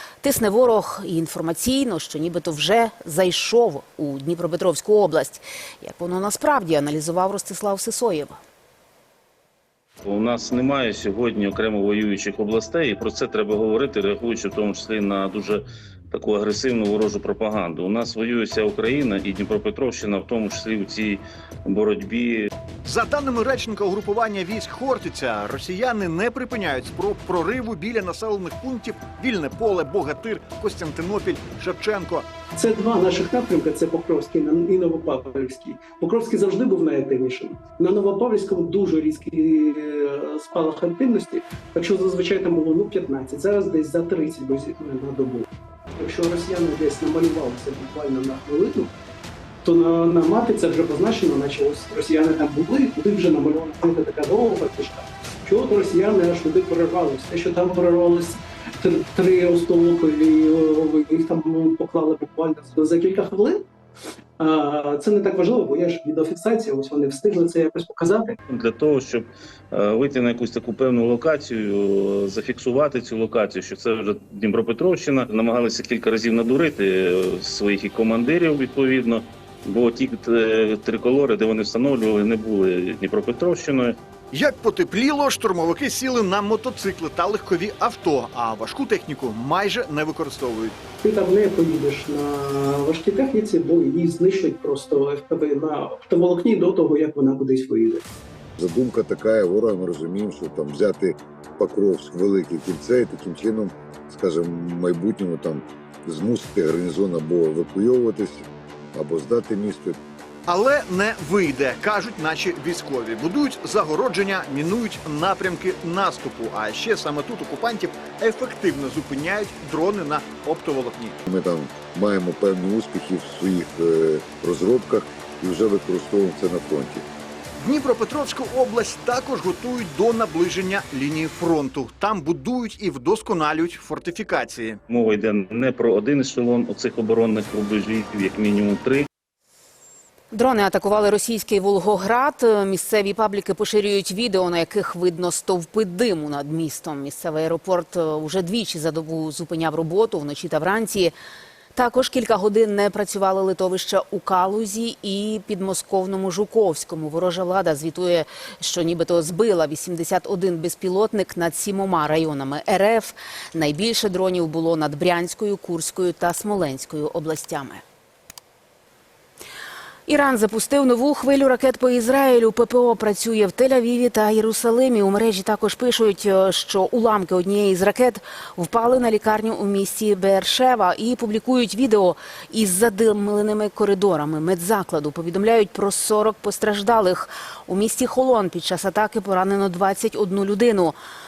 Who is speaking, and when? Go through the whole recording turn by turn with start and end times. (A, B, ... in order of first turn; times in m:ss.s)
0:00.2-0:08.4 A
0:10.0-0:22.5 B
0:22.8-0:32.3 C
0:32.5-0:48.9 D
0:49.6-1:03.7 D
1:04.4-1:08.4 D
1:08.5-1:24.0 B
1:24.3-1:30.8 C
1:31.0-1:38.0 D
1:38.6-1:50.0 E
1:50.5-2:01.2 C
2:01.3-2:07.0 E
2:07.6-2:14.8 C
2:14.9-2:19.1 B
2:20.3-2:31.1 A
2:31.8-2:47.8 A
2:50.1-3:11.0 A